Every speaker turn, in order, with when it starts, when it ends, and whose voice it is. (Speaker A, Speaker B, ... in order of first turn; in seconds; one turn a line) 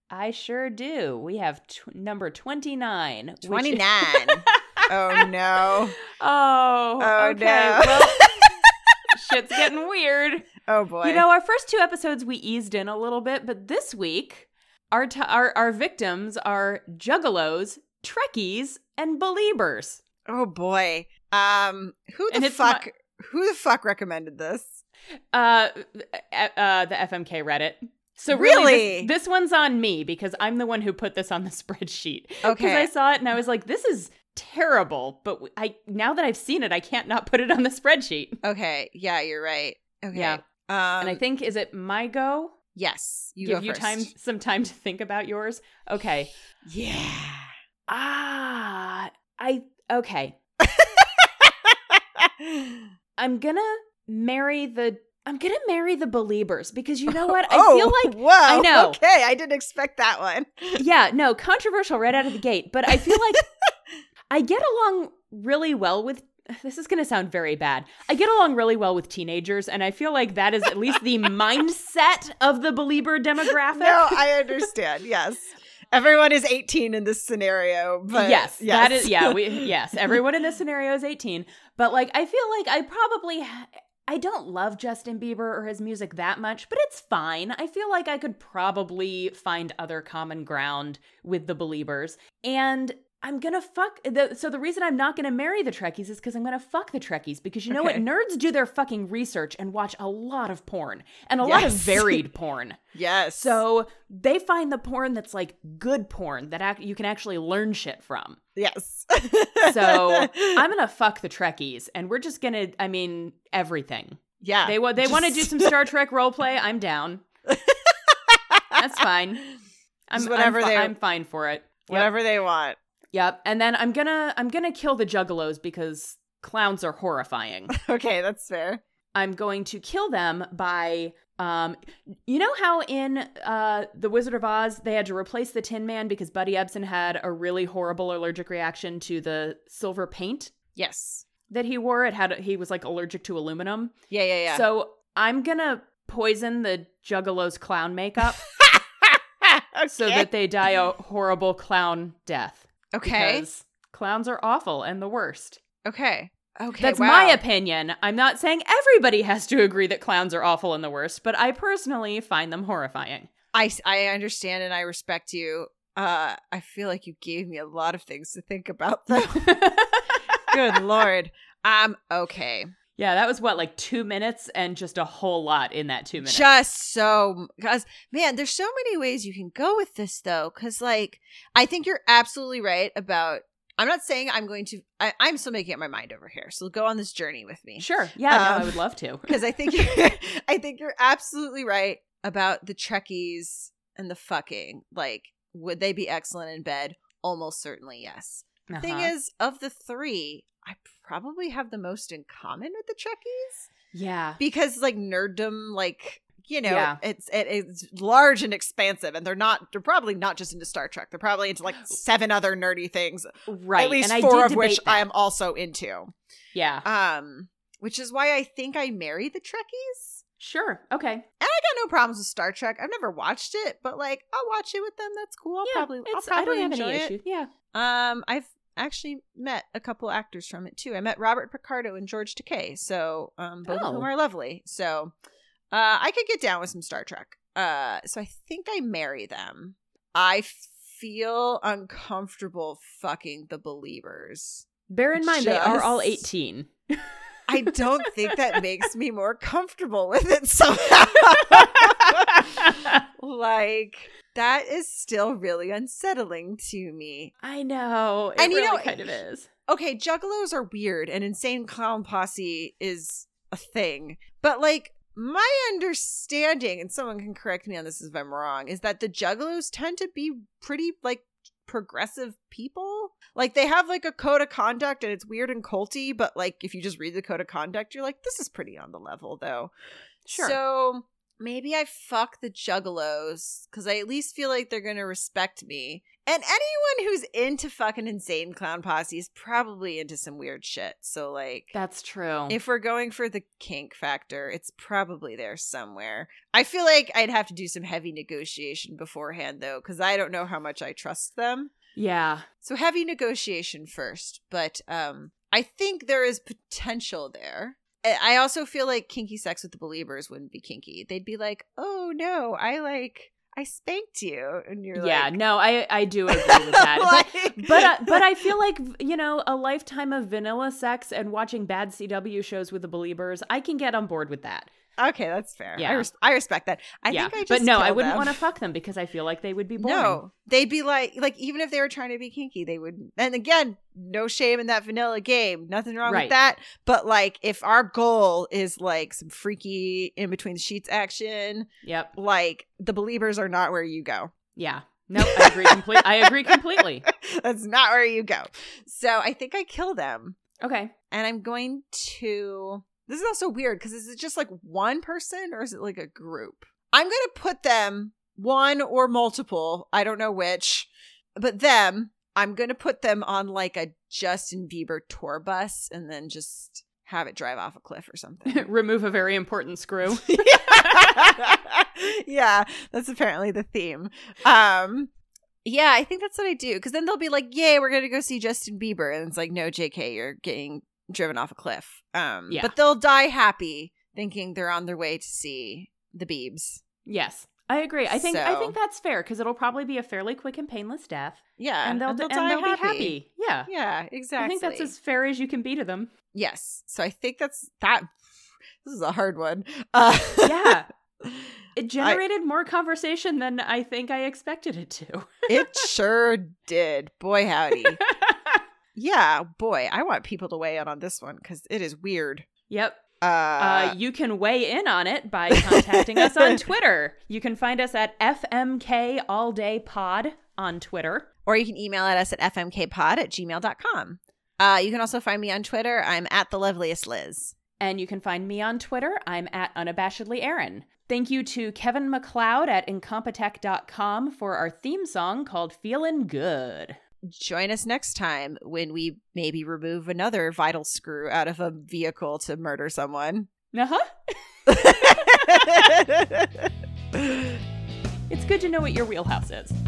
Speaker A: 0.1-5.3
Speaker B: 3.4-6.0
Speaker A: 6.2-8.6
Speaker B: 7.0-8.4
Speaker A: 9.1-10.5
Speaker B: 10.7-11.3
Speaker A: 11.0-20.0
Speaker B: 20.3-24.8
Speaker A: 22.3-22.8
Speaker A: 25.3-38.4
Speaker B: 28.3-29.1
Speaker B: 32.4-32.9
Speaker B: 38.4-41.2
Speaker A: 40.1-40.4
Speaker A: 41.0-42.5
Speaker B: 42.8-44.1
Speaker A: 43.4-46.3
Speaker B: 46.7-47.5
Speaker A: 47.9-50.4
Speaker B: 50.6-52.8
Speaker A: 53.2-59.0
Speaker B: 57.1-60.8
Speaker A: 60.8-63.4
Speaker B: 62.9-63.2
Speaker A: 64.3-74.6
Speaker B: 73.7-80.2
Speaker A: 78.1-102.8
Speaker B: 97.7-98.0
Speaker B: 101.4-102.2
Speaker B: 102.9-103.6
Speaker A: 103.4-108.4
Speaker B: 108.6-110.6
Speaker A: 109.6-117.2
Speaker B: 114.4-115.7
Speaker B: 117.5-118.8
Speaker A: 118.8-119.5
Speaker A: 120.1-122.1
Speaker B: 120.2-120.9
Speaker B: 121.9-122.8
Speaker A: 123.1-127.7
Speaker B: 127.7-128.8
Speaker A: 129.2-140.5
Speaker B: 140.8-141.2
Speaker A: 141.5-143.9
Speaker B: 144.1-144.7
Speaker A: 144.5-148.4
Speaker B: 148.6-150.3
Speaker A: 149.9-155.6
Speaker B: 152.9-153.5
Speaker B: 155.8-157.4
Speaker A: 156.8-163.3
Speaker B: 163.5-169.8
Speaker A: 169.1-170.5
Speaker B: 170.5-172.7
Speaker A: 173.0-176.5
Speaker B: 176.2-203.7
Speaker A: 187.8-189.5
Speaker A: 198.7-199.1
Speaker A: 203.9-204.4
Speaker B: 204.4-216.1
Speaker A: 206.7-207.0
Speaker A: 213.5-215.1
Speaker A: 216.5-216.9
Speaker B: 216.8-220.2
Speaker A: 220.4-221.2
Speaker B: 221.4-227.1
Speaker A: 225.6-227.5
Speaker B: 227.7-235.1
Speaker A: 233.7-234.1
Speaker B: 235.7-246.3
Speaker A: 244.9-247.0
Speaker B: 247.5-252.4
Speaker A: 251.7-252.9
Speaker B: 253.2-257.3
Speaker A: 257.4-259.5
Speaker B: 258.4-279.7
Speaker A: 280.2-280.6
Speaker B: 280.3-291.7
Speaker A: 291.7-292.6
Speaker B: 292.5-301.7
Speaker A: 301.9-302.4
Speaker B: 302.6-315.4
Speaker A: 314.9-324.7
Speaker B: 316.3-318.5
Speaker B: 325.0-328.4
Speaker A: 325.8-326.1
Speaker A: 327.1-330.2
Speaker B: 329.8-344.3
Speaker A: 336.0-336.4
Speaker A: 341.8-342.1
Speaker A: 344.6-347.1
Speaker B: 345.2-350.4
Speaker A: 350.6-350.9
Speaker B: 351.1-368.7
Speaker A: 368.5-371.1
Speaker B: 370.1-375.1
Speaker B: 375.6-386.8
Speaker A: 382.5-382.8
Speaker A: 387.1-393.7
Speaker B: 388.1-388.8
Speaker B: 391.6-393.2
Speaker B: 393.7-394.9
Speaker A: 394.4-396.1
Speaker B: 396.3-398.2
Speaker B: 398.8-402.2
Speaker A: 400.4-400.9
Speaker A: 401.8-405.9
Speaker B: 405.5-408.0
Speaker A: 408.1-408.6
Speaker B: 408.9-412.4
Speaker A: 412.7-413.0
Speaker B: 413.2-414.0
Speaker A: 413.6-421.3
Speaker B: 415.7-416.6
Speaker B: 421.4-427.6
Speaker A: 427.8-436.9
Speaker B: 437.3-443.5
Speaker A: 443.7-444.1
Speaker B: 444.7-446.6
Speaker A: 444.8-445.8
Speaker B: 447.1-447.5
Speaker A: 448.3-449.8